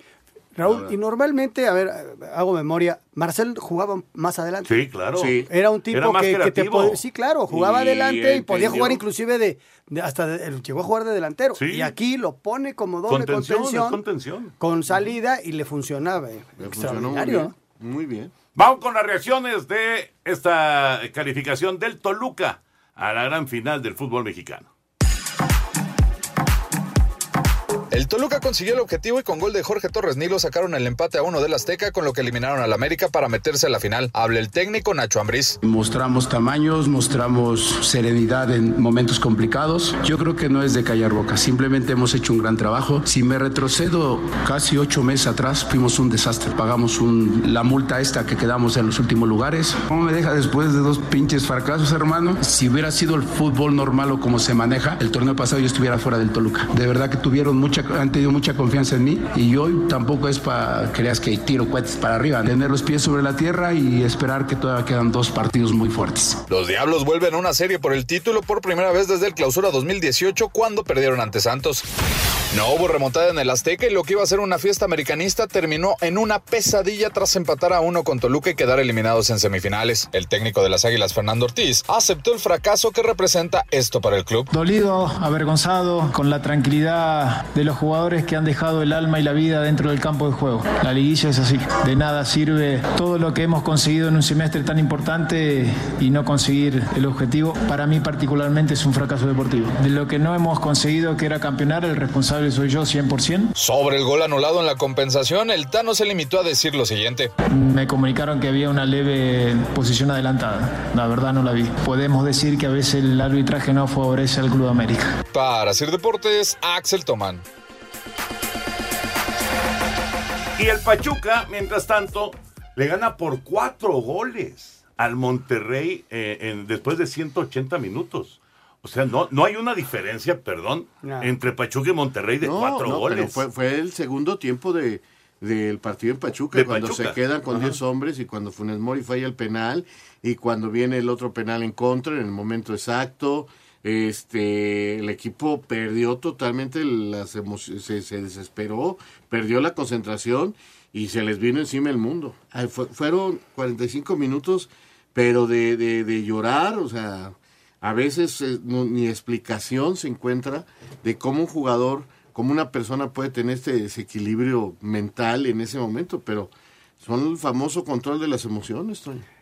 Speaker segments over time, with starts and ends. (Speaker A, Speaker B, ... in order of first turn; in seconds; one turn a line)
Speaker A: 0.5-4.7
Speaker B: 0.6-0.9
Speaker C: 4.6-7.0
Speaker B: 5.2-5.5
Speaker A: 5.5-14.0
Speaker B: 7.5-9.0
Speaker C: 11.6-11.9
Speaker C: 13.1-14.5
Speaker A: 14.6-17.5
Speaker B: 16.6-18.3
Speaker C: 18.5-24.6
Speaker D: 27.9-35.6
Speaker E: 35.6-66.4
Speaker D: 66.5-71.8
Speaker D: 72.5-84.5
Speaker F: 84.5-103.5
Speaker D: 103.5-107.3
Speaker F: 107.5-115.2
Speaker D: 115.3-117.4
Speaker C: 120.6-133.4
Speaker A: 131.0-131.3
Speaker B: 132.4-169.2
Speaker C: 136.5-137.2